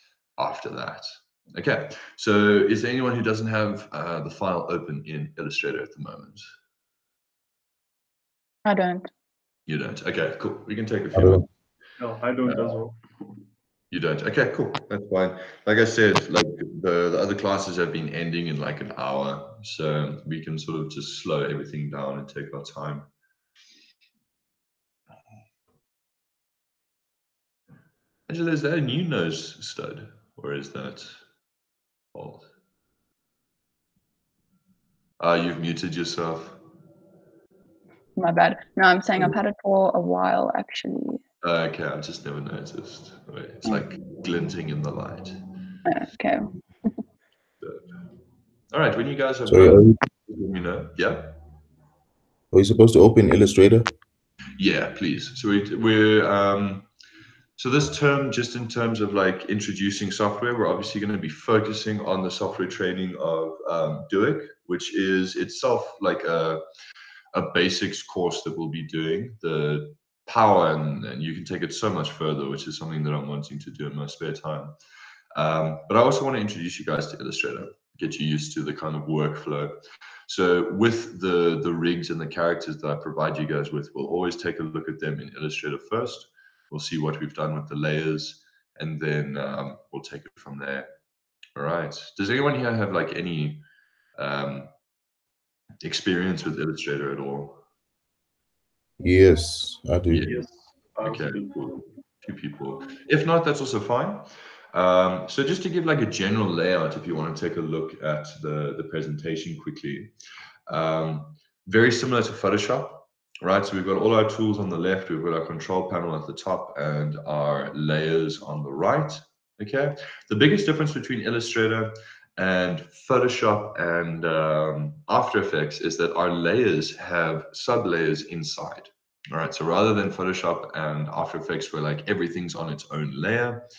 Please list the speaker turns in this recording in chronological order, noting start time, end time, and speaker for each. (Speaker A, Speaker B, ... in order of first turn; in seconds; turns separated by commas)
Speaker A: 0.4-6.5, Speaker B: 8.6-9.1, Speaker A: 9.7-11.4, Speaker C: 12.0-13.3, Speaker A: 12.4-12.8, Speaker A: 13.9-23.1, Speaker A: 28.3-31.2, Speaker A: 32.1-32.5, Speaker A: 35.2-36.6, Speaker B: 38.1-41.2, Speaker A: 41.4-45.4, Speaker B: 45.9-46.5, Speaker A: 48.7-51.4, Speaker D: 49.5-50.0, Speaker D: 52.5-53.9, Speaker A: 54.6-56.9, Speaker A: 57.6-66.6, Speaker A: 67.3-74.7, Speaker A: 75.3-90.9, Speaker A: 91.5-93.6, Speaker A: 94.2-94.7, Speaker A: 95.8-97.6, Speaker D: 99.0-100.3, Speaker A: 100.1-100.5, Speaker C: 100.2-101.5, Speaker A: 101.0-110.1, Speaker A: 110.7-133.6